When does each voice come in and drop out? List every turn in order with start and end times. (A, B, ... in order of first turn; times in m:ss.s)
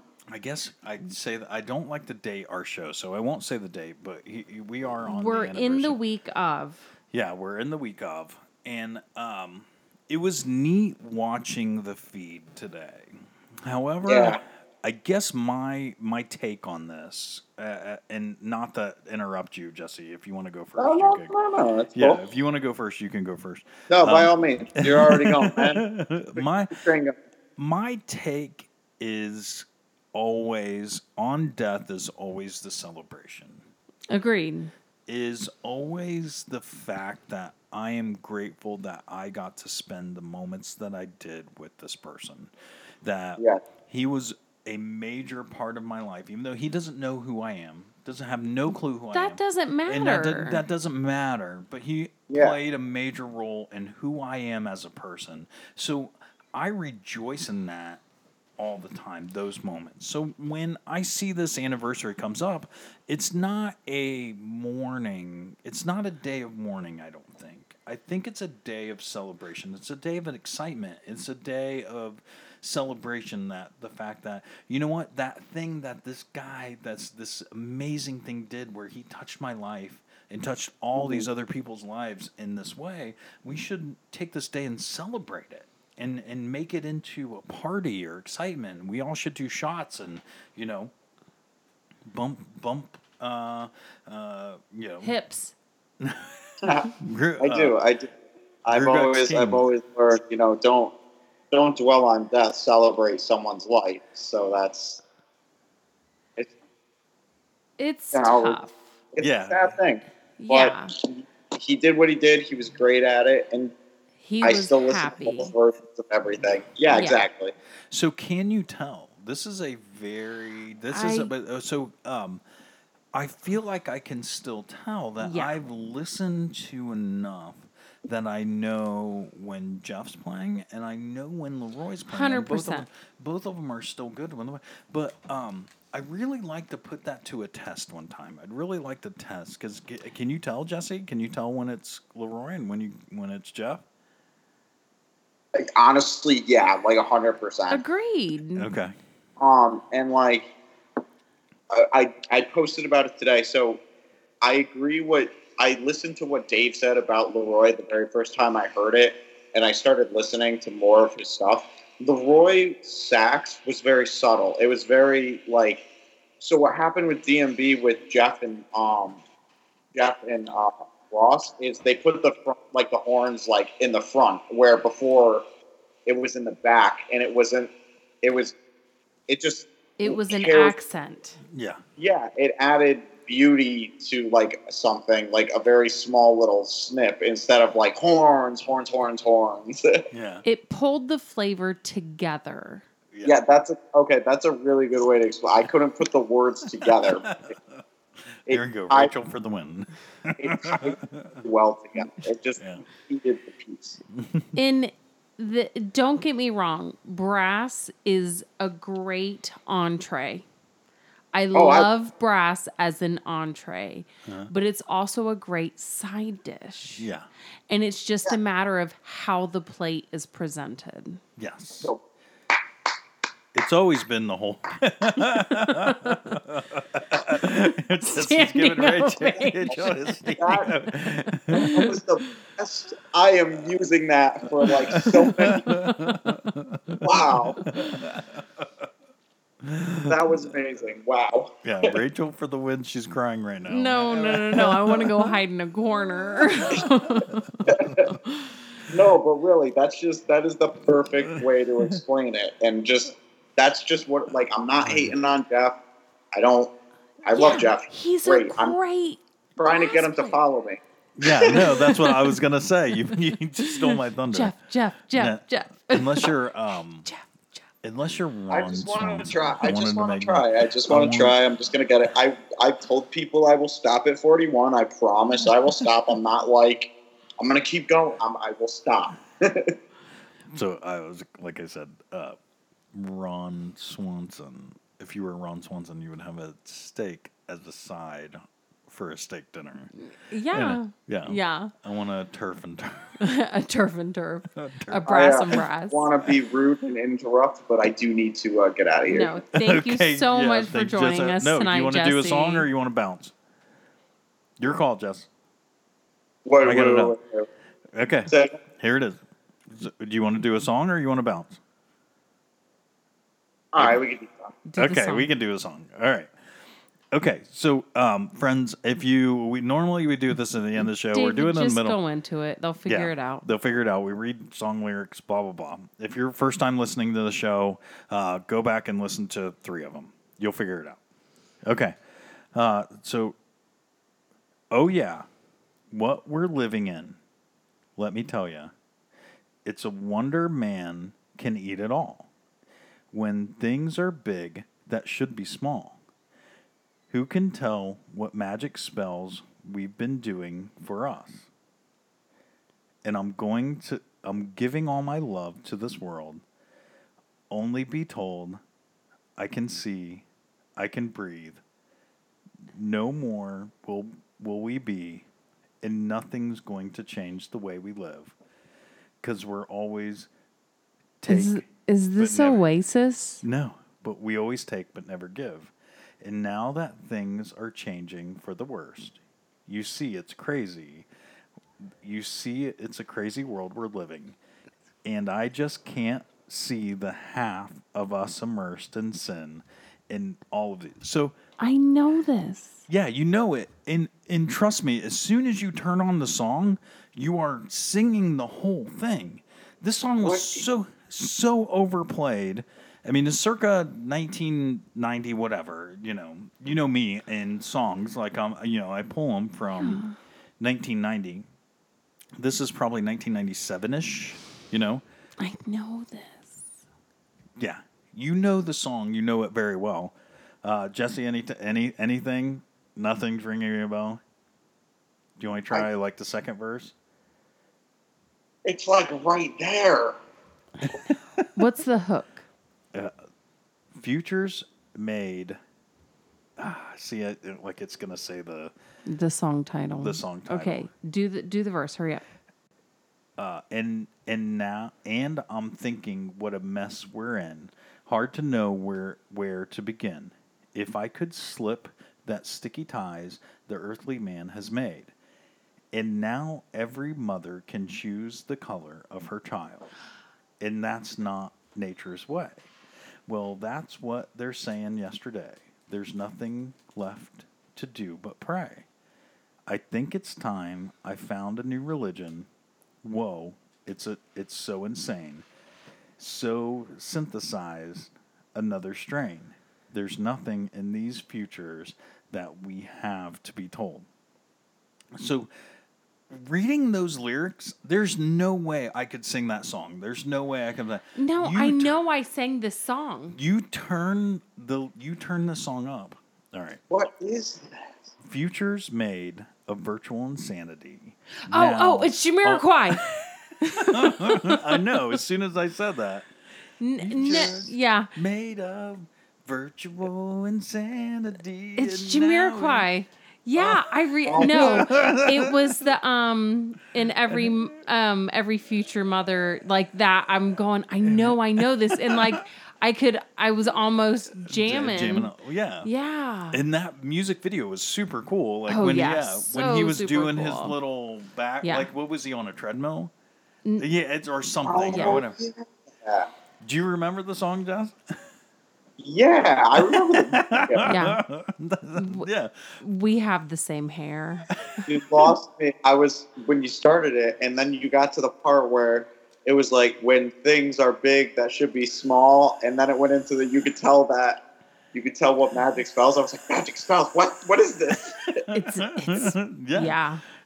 0:00.3-0:06.0 A
0:05.0-0:06.9 B
0:07.1-0:21.3 A
0:14.0-0:14.4 C
0:20.8-0:22.2 C
0:21.9-0:26.8 A
0:23.9-0:27.1 C
0:27.6-0:33.6 A
0:34.1-0:34.7 B
0:35.1-0:42.5 A
0:43.0-0:58.0 A
0:49.1-0:50.6 B
0:52.3-0:52.6 C
0:58.6-1:30.9 A
1:21.0-1:21.3 C
1:32.1-1:35.1 A
1:35.0-1:35.5 B
1:36.0-1:37.8 A
1:36.6-1:38.1 C
1:38.6-1:40.9 C
1:38.7-1:39.6 A
1:41.5-1:45.0 C
1:47.8-1:48.8 B
1:48.1-1:48.6 C
1:49.1-1:53.7 C
1:49.2-1:49.8 A
1:50.4-1:50.9 B
1:54.2-1:55.5 B
1:54.4-1:57.5 C
1:56.9-1:57.2 B
1:57.9-2:02.4 A
2:00.9-2:01.3 B
2:03.1-2:23.8 A
2:05.2-2:05.5 B
2:12.1-2:12.8 B
2:25.5-2:27.8 C
2:27.7-2:28.7 B
2:28.6-2:28.9 A
2:29.4-2:30.5 C
2:31.7-2:33.8 C
2:34.4-2:45.8 C
2:46.4-2:49.2 C
2:49.9-2:55.4 C
2:56.0-2:57.7 C
2:58.2-2:58.6 C
2:59.3-3:00.8 C
3:00.0-3:01.4 B
3:01.5-3:01.8 A
3:02.0-3:10.0 C
3:10.1-3:10.4 A
3:10.4-3:12.8 B
3:13.2-3:17.3 C
3:16.8-3:17.8 A
3:18.5-3:21.4 A
3:18.5-3:19.1 C
3:20.4-3:24.0 C
3:24.2-3:24.5 A
3:24.5-3:30.4 B
3:31.3-3:37.0 B
3:31.5-3:31.9 C
3:34.2-3:34.5 A
3:37.0-3:37.3 A
3:37.7-3:41.2 B
3:41.4-3:41.9 A
3:43.5-3:52.0 A
3:48.0-3:50.6 B
3:50.3-3:50.7 C
3:51.5-3:52.0 B
3:51.5-3:55.7 C
3:54.6-3:58.9 A
3:55.7-3:56.4 B
3:57.0-3:57.7 C
3:59.6-4:00.5 A
4:00.1-4:01.9 C
4:01.6-4:05.4 A
4:03.7-4:08.5 B
4:06.6-4:08.2 A
4:07.6-4:08.1 C
4:08.9-4:15.8 C
4:11.2-4:12.0 A
4:14.8-4:15.1 A
4:16.3-4:16.7 C
4:17.2-4:18.8 C
4:17.3-4:20.4 B
4:19.6-4:21.5 C
4:21.2-4:24.5 A
4:21.5-4:22.4 B
4:23.1-4:26.3 B
4:25.1-4:27.1 A
4:27.8-4:31.4 A
4:28.5-4:39.7 C
4:40.5-4:42.4 A
4:42.9-4:49.9 A
4:50.1-4:51.7 B
4:50.5-4:53.3 A
4:53.2-4:56.1 B
4:54.5-4:55.6 A
4:55.0-4:59.3 C
4:59.1-5:02.7 B
4:59.5-5:03.3 A
5:04.6-5:05.3 A
5:06.4-5:07.5 C
5:06.6-5:07.1 A
5:07.9-5:11.6 A
5:08.3-5:08.6 C
5:13.7-5:14.5 C
5:14.7-5:15.3 B
5:14.8-5:16.3 A
5:17.1-5:22.0 A
5:20.8-5:23.4 B
5:22.8-5:31.0 A
5:31.6-5:31.9 A
5:32.5-5:33.4 A
5:34.7-5:35.3 A
5:35.9-5:37.2 A
5:38.0-5:38.7 A
5:39.6-5:42.3 A
5:43.1-5:46.0 A
5:47.1-5:51.5 A
5:53.0-5:56.4 A
5:57.5-5:58.6 A
5:59.4-6:00.2 A
6:00.8-6:01.6 A
6:02.7-6:05.2 A
6:05.8-6:08.3 A
6:09.2-6:10.3 A
6:11.2-6:11.6 A
6:11.3-6:13.4 B
6:12.2-6:12.6 A
6:13.4-6:21.1 A
6:22.0-6:24.4 A
6:25.0-6:31.4 A
6:31.6-6:32.8 B
6:32.9-6:50.0 A
6:40.2-6:40.6 C
6:49.7-6:50.2 B
6:50.6-6:51.4 A
6:52.4-6:55.0 A
6:55.4-6:56.6 B
6:57.6-7:04.2 A
7:05.4-7:06.9 A
7:08.6-7:10.2 C
7:10.8-7:11.5 A
7:11.5-7:12.4 B
7:14.0-7:15.6 A
7:16.6-7:18.7 A
7:19.0-7:22.2 B
7:20.0-7:20.9 A
7:23.4-7:35.1 A
7:35.9-7:39.9 A
7:40.6-7:42.6 A
7:43.3-7:48.8 A
7:49.7-7:52.5 A
7:53.0-7:55.4 A
7:56.2-8:04.1 A
8:05.1-8:05.5 A
8:06.3-8:12.0 A
8:11.2-8:13.4 B
8:13.3-8:16.8 A
8:16.9-8:17.7 C
8:18.2-8:26.3 A
8:21.5-8:23.1 B
8:23.6-8:24.9 B
8:26.8-8:28.1 B
8:27.0-8:32.9 A
8:31.8-8:45.3 B
8:33.5-8:35.9 A
8:34.2-8:34.9 C
8:41.0-8:42.4 A
8:44.4-8:45.9 A
8:45.8-8:46.6 B
8:46.5-8:53.1 A
8:48.7-8:50.8 B
8:51.6-8:51.9 B
8:53.8-8:55.4 A
8:54.6-8:56.3 C
8:54.9-8:55.2 B
8:56.6-8:57.9 A
8:59.0-9:00.9 C
8:59.8-9:02.7 A
9:00.8-9:01.2 B
9:02.0-9:02.3 B
9:02.8-9:04.6 B
9:04.8-9:05.2 A
9:04.9-9:14.4 C
9:14.9-9:18.4 C
9:18.5-9:20.0 A
9:18.5-9:20.2 B